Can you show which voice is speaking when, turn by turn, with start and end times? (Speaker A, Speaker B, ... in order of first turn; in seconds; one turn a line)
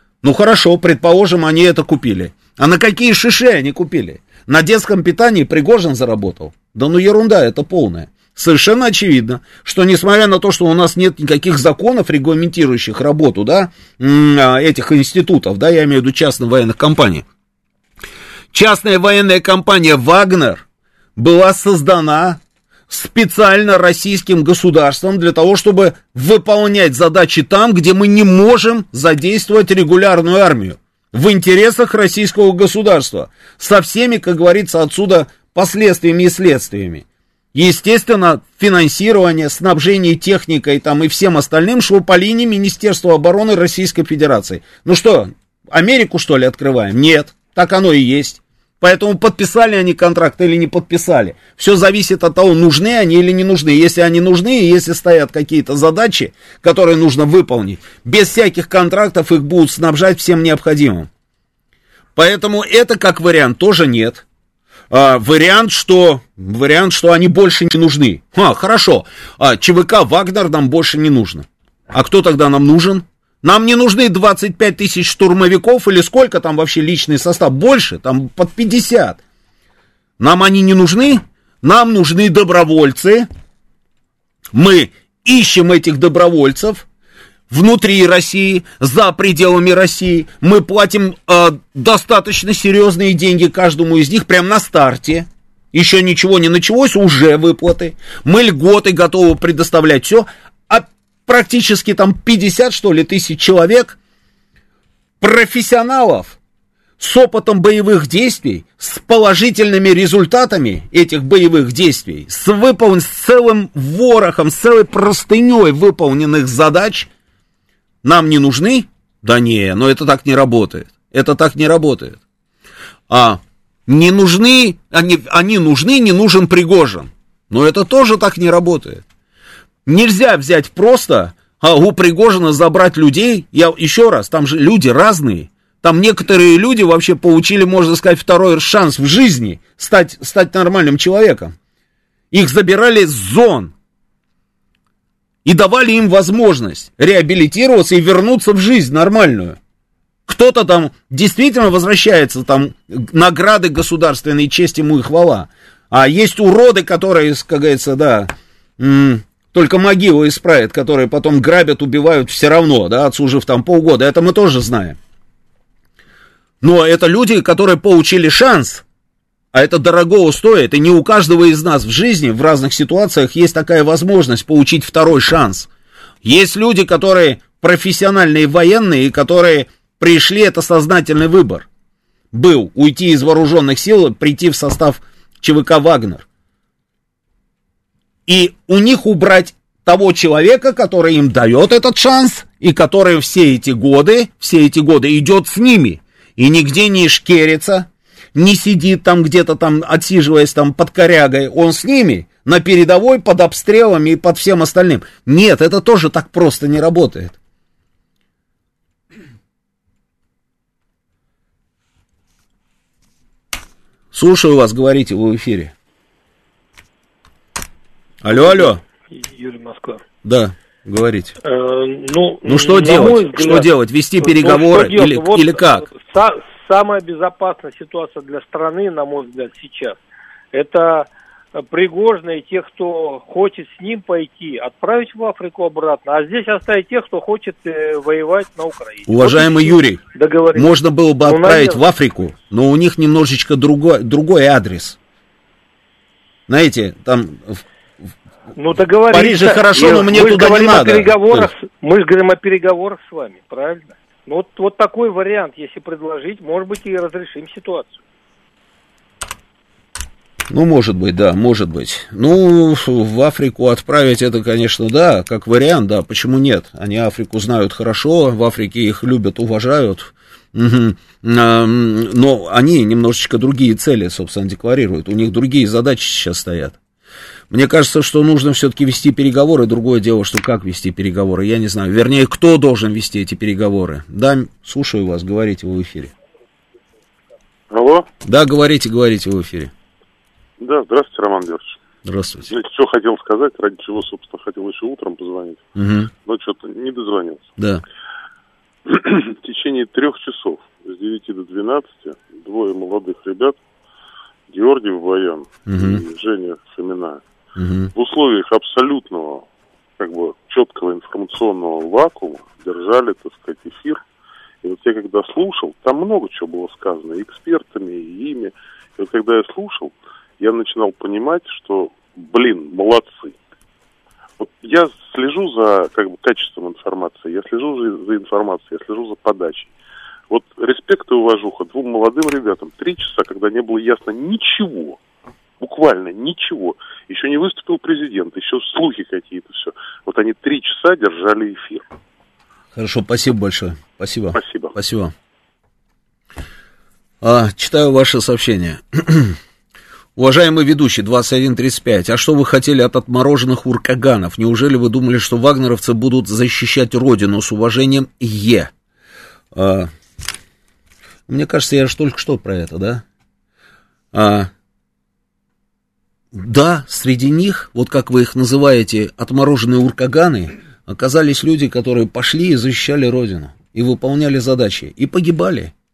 Speaker A: 0.2-17.3
Speaker A: 18.5-20.6
Speaker A: 21.2-61.1
Speaker A: 62.2-64.2
Speaker A: 64.9-79.2
Speaker A: 80.2-83.3
Speaker A: 84.5-86.9
Speaker A: 87.5-104.0
Speaker A: 105.2-106.4
Speaker A: 107.0-117.1
Speaker A: 118.0-122.2
Speaker A: 123.1-129.0
Speaker A: 129.9-141.5
Speaker A: 142.3-143.7
Speaker A: 145.4-149.6
Speaker A: 150.3-165.0
Speaker A: 166.6-168.8
Speaker A: 169.5-175.7
Speaker A: 176.2-181.7
Speaker A: 182.3-186.3
Speaker A: 188.3-207.4
Speaker A: 214.1-215.7
Speaker A: 218.2-218.8
Speaker B: 218.3-220.0
Speaker A: 220.2-221.3
Speaker B: 221.4-230.0
Speaker A: 222.4-225.8
Speaker B: 230.5-240.7
Speaker A: 239.1-240.0
Speaker A: 240.5-245.0
Speaker B: 241.2-241.8
Speaker A: 246.5-247.6
Speaker B: 248.6-258.0
Speaker A: 249.1-251.5
Speaker A: 260.5-276.8
Speaker A: 277.5-286.1
Speaker C: 287.7-288.1
Speaker A: 288.2-289.7
Speaker C: 290.6-291.8
Speaker A: 292.1-292.5
Speaker C: 292.5-295.6
Speaker A: 295.8-296.1
Speaker C: 296.3-297.5
Speaker C: 298.9-303.6
Speaker C: 304.5-307.2
Speaker A: 305.7-306.0
Speaker A: 307.6-307.9
Speaker C: 307.9-309.5
Speaker C: 310.0-314.0
Speaker C: 314.6-323.4
Speaker C: 324.4-329.7
Speaker C: 330.3-335.0
Speaker C: 335.6-341.9
Speaker A: 342.7-345.1
Speaker C: 344.3-344.8
Speaker A: 347.2-349.4
Speaker A: 350.2-358.7
Speaker A: 359.5-359.9
Speaker A: 361.3-363.0
Speaker A: 364.1-364.5
Speaker A: 366.3-375.7